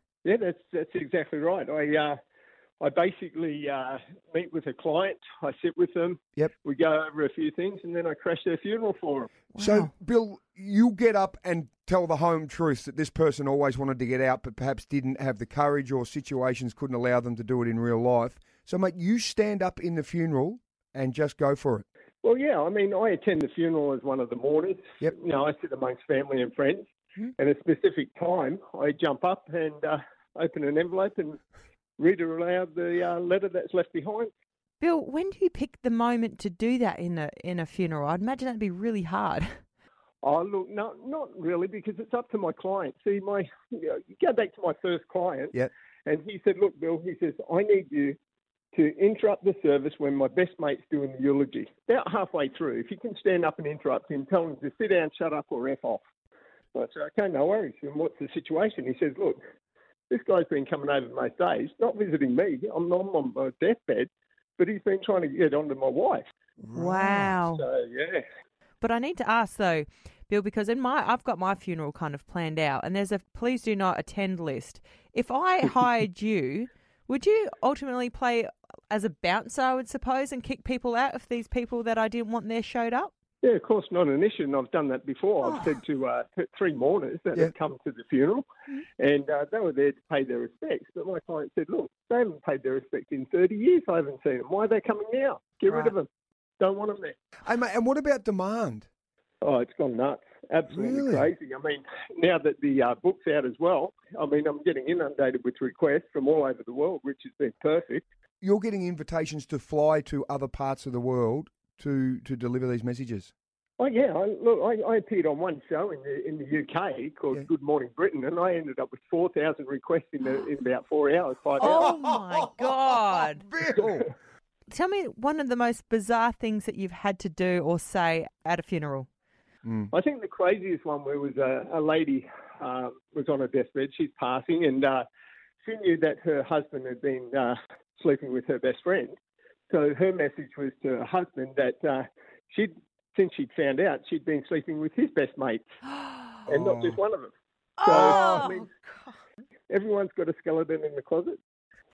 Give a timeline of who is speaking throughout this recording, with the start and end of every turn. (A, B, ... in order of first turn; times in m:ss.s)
0:00.2-0:02.2 A
0:02.8-0:09.3 A
0:09.5-0:09.9 B
0:09.6-0:21.8 C
0:22.2-0:31.4 A
0:32.0-0:34.3 A
0:34.8-0:39.5 B
0:40.2-0:45.5 A
0:46.0-0:48.2 A
0:48.7-0:56.0 A
0:56.7-0:59.4 A
1:00.1-1:06.2 A
1:06.6-1:07.4 C
1:06.7-1:07.6 B
1:07.5-1:08.2 A
1:08.8-1:23.1 B
1:23.4-1:28.4 A
1:29.0-1:36.1 A
1:36.6-1:37.1 A
1:37.4-1:38.8 C
1:39.4-1:48.0 A
1:40.7-1:41.3 C
1:48.4-1:53.3 C
1:53.8-2:01.9 A
2:01.6-2:03.4 B
2:01.6-2:04.1 C
2:03.7-2:04.1 A
2:04.7-2:09.1 B
2:09.6-2:09.9 C
2:09.9-2:15.0 A
2:15.6-2:19.2 A
2:19.7-2:25.6 A
2:26.4-2:28.7 A
2:26.5-2:27.0 C
2:27.8-2:29.1 B
2:27.9-2:28.5 C
2:29.7-2:31.4 A